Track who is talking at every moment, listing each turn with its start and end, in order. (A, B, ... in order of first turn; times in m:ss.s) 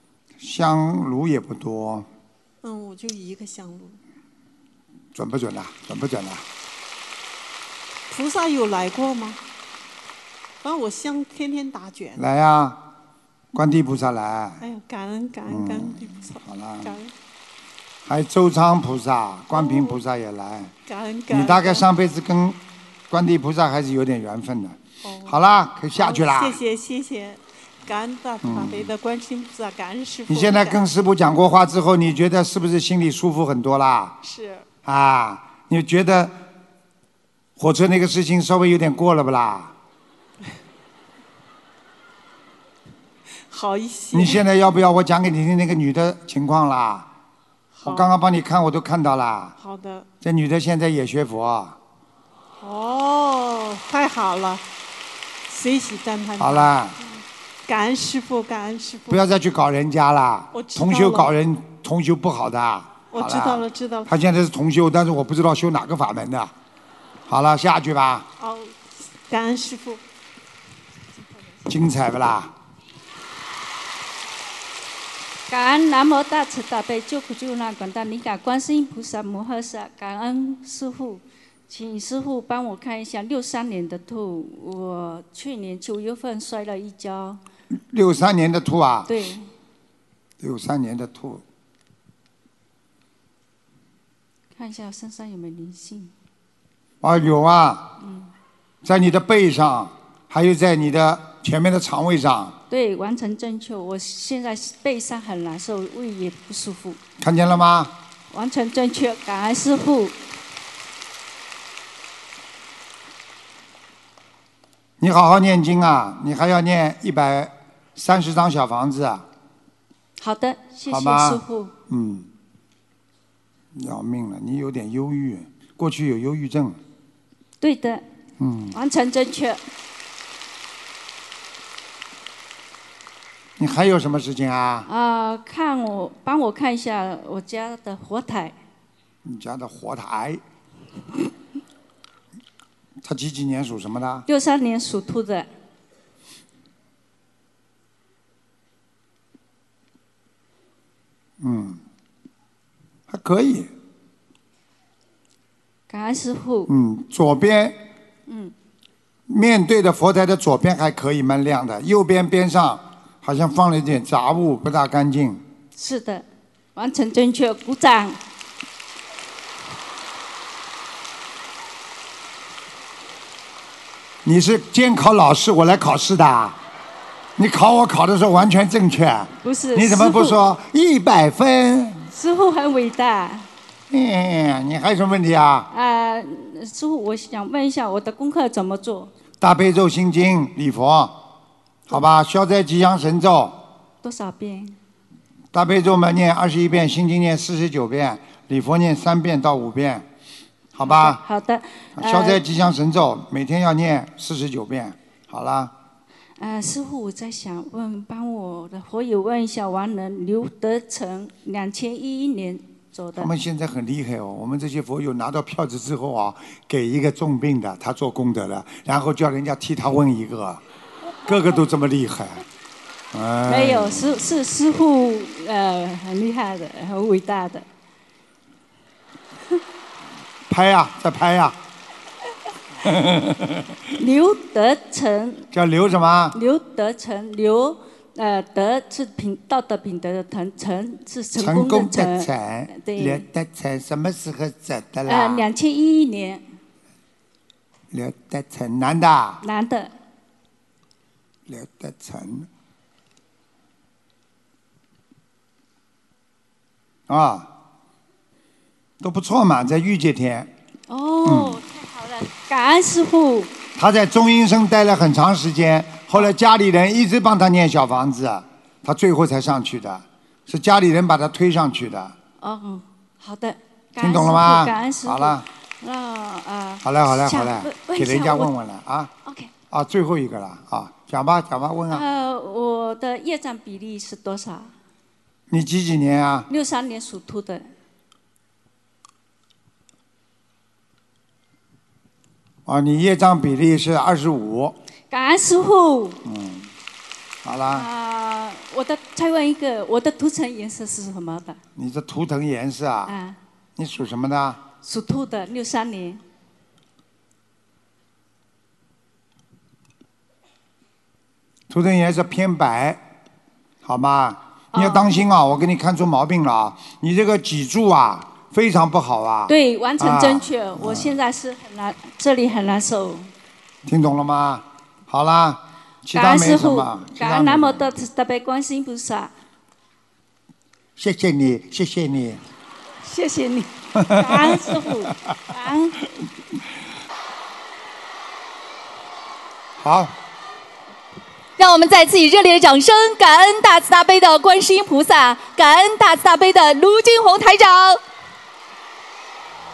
0:00.4-0:02.1 A
0:02.6-0:04.0 B
0:05.1-0:06.4 A
0:08.1-0:09.4 B
0:10.6-0:12.2 B
0:12.2-0:12.8 A
0:13.5-0:14.6 A
0:14.6-0:17.1 B
0:15.5-0:16.9 A
0:18.0-0:20.7 A
0:19.5-0:20.0 B
0:20.8-0:21.9 B
0:21.3-0:22.6 A
0:23.1-0:26.6 A
0:25.0-0:25.4 B
0:25.9-0:30.8 B
0:28.4-0:28.9 A
0:30.3-0:34.2 A
0:34.2-0:34.6 B
0:34.8-0:36.4 A
0:37.6-0:39.7 A
0:43.5-0:44.4 B
0:44.1-0:47.1 A
0:47.7-0:48.1 B
0:47.8-0:49.5 A
0:49.6-0:50.1 B
0:50.2-0:51.8 A
0:52.6-0:54.6 B
0:55.5-0:59.3 B
0:56.4-0:57.0 A
0:59.1-1:06.5 A
1:00.5-1:01.3 B
1:03.1-1:04.1 B
1:07.3-1:08.3 A
1:08.4-1:10.0 B
1:11.2-1:11.6 B
1:11.7-1:12.5 A
1:15.5-1:27.4 C
1:27.9-1:29.1 A
1:29.1-1:29.5 C
1:30.4-1:31.4 A
1:34.5-1:36.1 C
1:37.0-1:37.9 A
1:38.0-1:38.3 C
1:38.8-1:42.6 A
1:42.7-1:47.0 C
1:47.2-1:47.9 A
1:48.3-1:50.2 C
1:55.0-1:59.2 A
2:00.2-2:01.7 C
2:00.9-2:02.3 A
2:03.7-2:06.8 A
2:07.6-2:08.0 C
2:08.4-2:08.8 A
2:08.7-2:09.6 C
2:13.6-2:14.9 A
2:14.9-2:18.5 C
2:19.2-2:20.4 A
2:23.0-2:24.3 A
2:24.3-2:25.5 C
2:31.4-2:31.8 A
2:33.1-2:33.7 A
2:35.9-2:36.7 C
2:36.7-2:37.8 A
2:38.3-2:38.5 C
2:39.3-2:45.4 A
2:45.8-2:46.2 C
2:46.8-2:48.2 C
2:54.2-2:56.6 A
2:57.4-3:02.1 A
2:59.4-3:00.4 C
3:02.1-3:03.5 C
3:03.9-3:05.7 A
3:05.7-3:09.1 C
3:09.4-3:11.2 A
3:11.9-3:13.6 A
3:14.0-3:14.7 C
3:15.5-3:20.0 A
3:20.7-3:21.2 A
3:20.8-3:22.4 C
3:22.0-3:25.7 A
3:26.4-3:33.3 C
3:33.2-3:40.6 A
3:41.2-3:42.4 A
3:43.1-3:44.3 A
3:43.4-3:47.6 C
3:50.5-3:51.6 A
3:52.8-3:53.8 A
3:54.0-3:55.5 C
3:55.5-3:56.4 A
3:56.3-4:03.2 C
4:01.3-4:05.5 A
4:05.0-4:06.4 C
4:07.9-4:09.4 A
4:09.4-4:09.9 C
4:11.5-4:12.5 A
4:17.1-4:17.5 A
4:19.0-4:20.5 A
4:20.9-4:23.5 C
4:21.2-4:21.6 A
4:23.8-4:32.2 A
4:32.4-4:38.5 C
4:34.0-4:35.4 A
4:36.8-4:39.1 A
4:39.2-4:39.5 C
4:39.7-4:42.0 A
4:41.9-4:44.7 C
4:45.5-4:46.5 A
4:46.5-4:47.7 C
4:52.6-4:54.8 A
4:55.1-4:56.2 C
4:56.2-4:56.7 A
4:57.4-4:57.9 A
4:57.7-5:01.6 C
5:01.8-5:03.2 A
5:03.0-5:03.4 C
5:03.8-5:04.6 A
5:04.8-5:06.2 C
5:11.7-5:13.0 A
5:13.8-5:21.2 A
5:14.7-5:15.1 C
5:19.5-5:23.3 C
5:23.8-5:27.9 A
5:26.1-5:29.3 C
5:31.0-5:32.4 A
5:33.0-5:36.0 C
5:33.9-5:35.1 A
5:39.8-5:40.1 A
5:41.6-5:48.0 D